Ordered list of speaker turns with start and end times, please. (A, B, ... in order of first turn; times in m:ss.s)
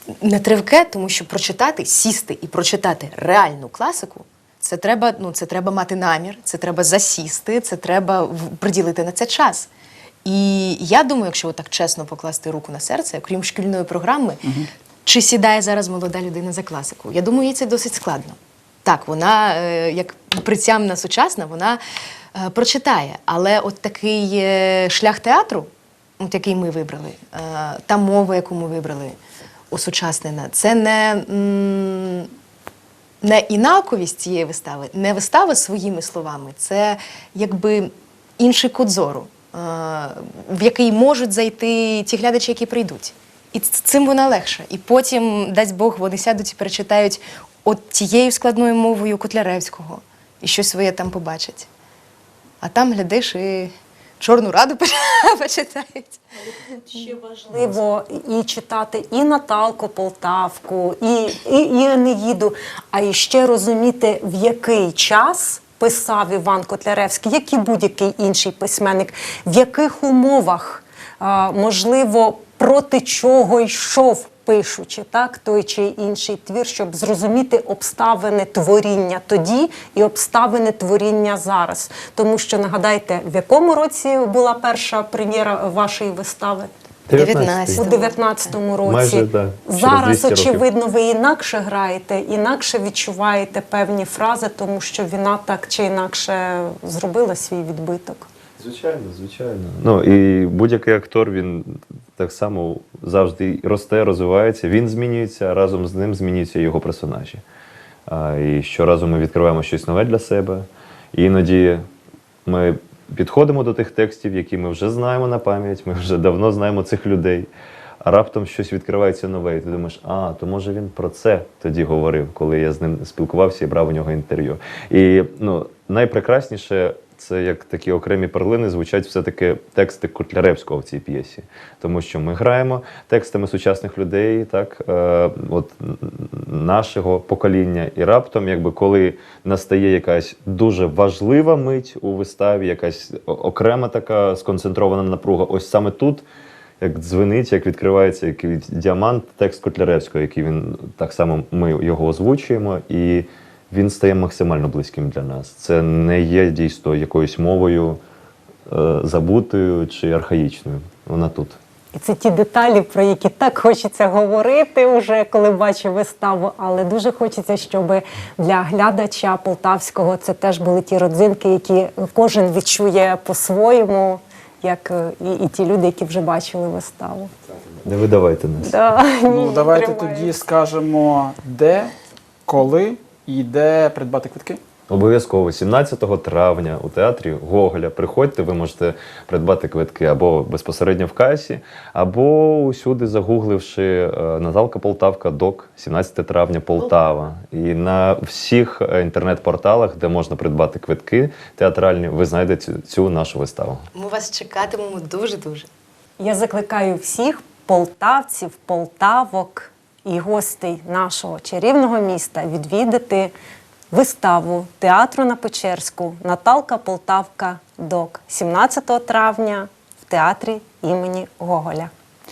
0:00.2-0:09.7 A
0:10.2-0:14.4 A
0:15.0-0:21.8 A
0:22.3-0:29.2 A
0:29.7-0:32.3 A
0:33.2-0:51.7 A
0:52.6-0:57.1 A
0:57.0-1:26.7 B
1:27.1-1:27.8 C
1:27.2-1:28.6 A
1:27.7-1:38.3 B
1:28.8-1:30.6 C
1:38.6-1:47.4 C
1:48.1-1:51.8 C
1:52.5-1:57.5 C
1:58.0-2:26.2 C
2:26.8-2:38.0 C
2:38.7-2:41.6 C
2:41.9-2:57.3 B
2:57.8-2:58.8 C
2:58.6-3:00.4 B
2:59.3-3:01.9 D
3:02.5-3:04.6 D
3:04.9-3:23.9 C
3:24.0-3:25.7 A
3:26.2-3:33.3 B
3:33.9-3:41.9 B